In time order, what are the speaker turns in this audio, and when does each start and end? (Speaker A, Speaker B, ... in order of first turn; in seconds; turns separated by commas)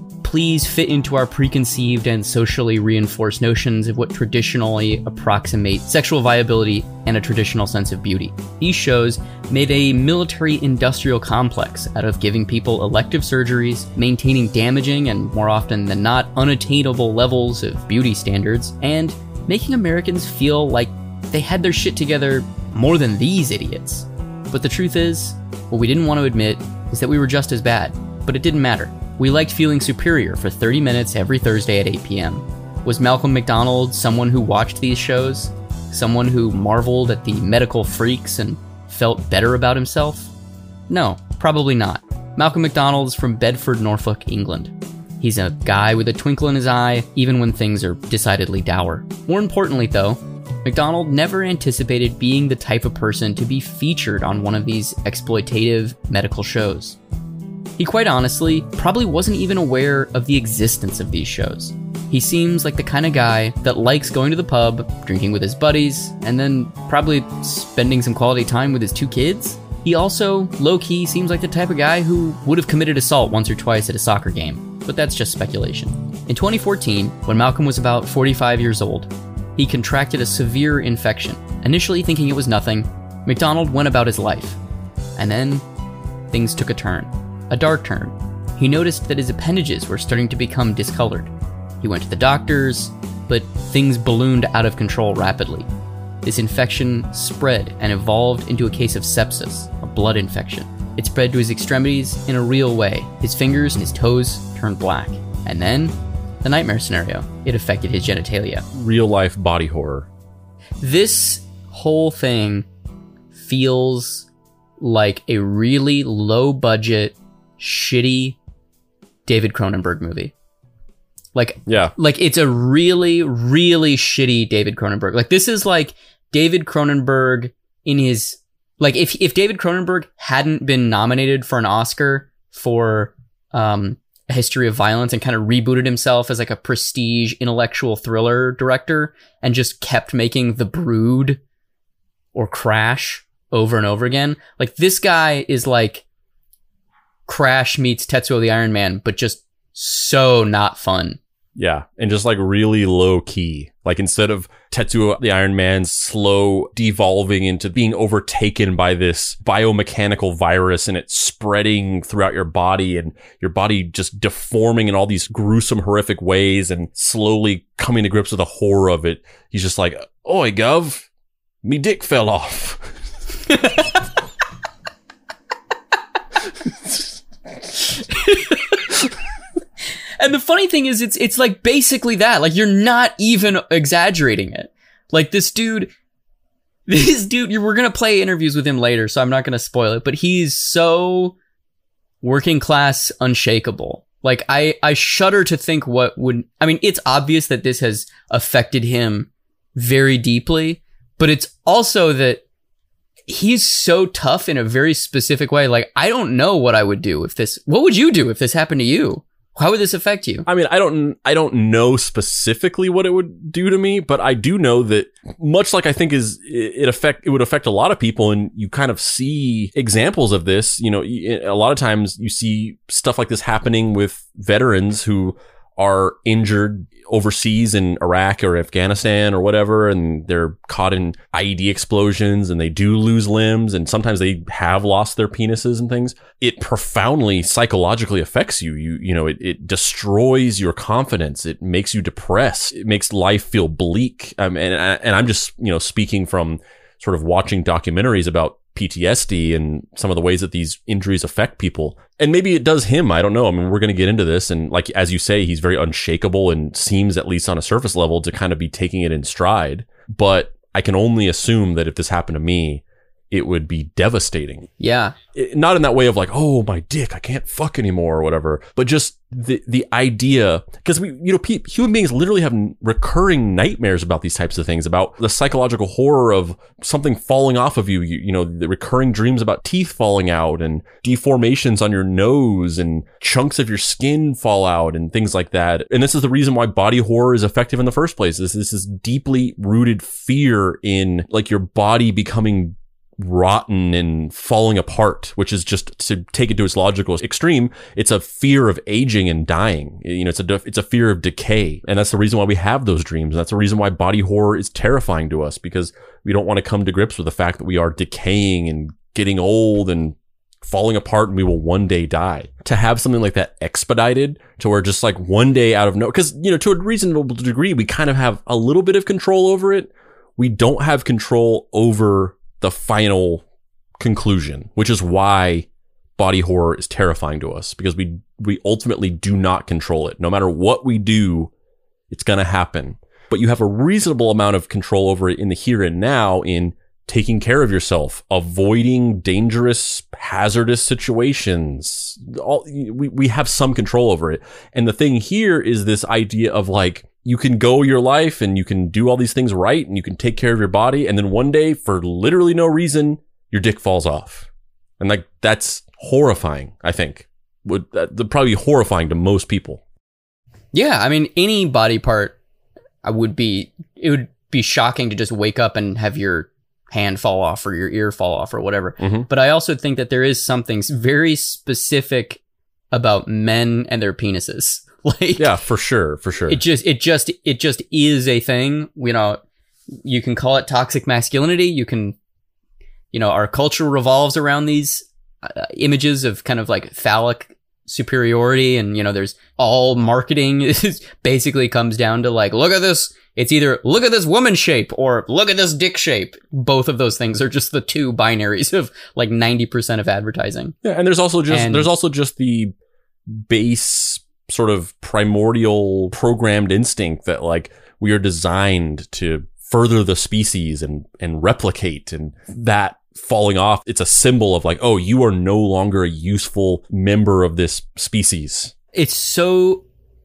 Speaker A: 0.2-40.3, Speaker A: 40.9-57.0, Speaker A: 57.8-84.6, Speaker A: 85.2-85.6, Speaker A: 86.3-95.7, Speaker A: 96.2-108.7, Speaker B: 108.7-110.1, Speaker A: 110.8-112.7, Speaker A: 113.3-114.3, Speaker A: 114.8-118.4, Speaker A: 119.3-120.3, Speaker A: 121.3-141.4, Speaker B: 121.7-121.9, Speaker A: 142.3-146.1, Speaker A: 147.3-151.2, Speaker B: 151.6-171.1, Speaker B: 171.6-172.9, Speaker A: 173.5-173.9, Speaker A: 177.9-178.8, Speaker A: 180.2-185.9, Speaker A: 186.9-191.4, Speaker A: 192.2-202.4, Speaker A: 203.3-210.5, Speaker B: 210.5-264.7, Speaker A: 264.8-265.1, Speaker B: 265.4-323.4, Speaker B: 324.0-331.5, Speaker B: 332.1-354.5, Speaker B: 355.0-359.8, Speaker A: 360.7-362.4, Speaker A: 363.0-372.4, Speaker B: 369.0-369.3, Speaker A: 372.9-375.5, Speaker B: 375.4-376.6, Speaker A: 376.5-379.4, Speaker A: 379.9-382.2, Speaker A: 383.1-400.8, Speaker B: 400.8-402.7, Speaker A: 401.5-401.9, Speaker B: 403.3-418.7, Speaker A: 418.9-419.9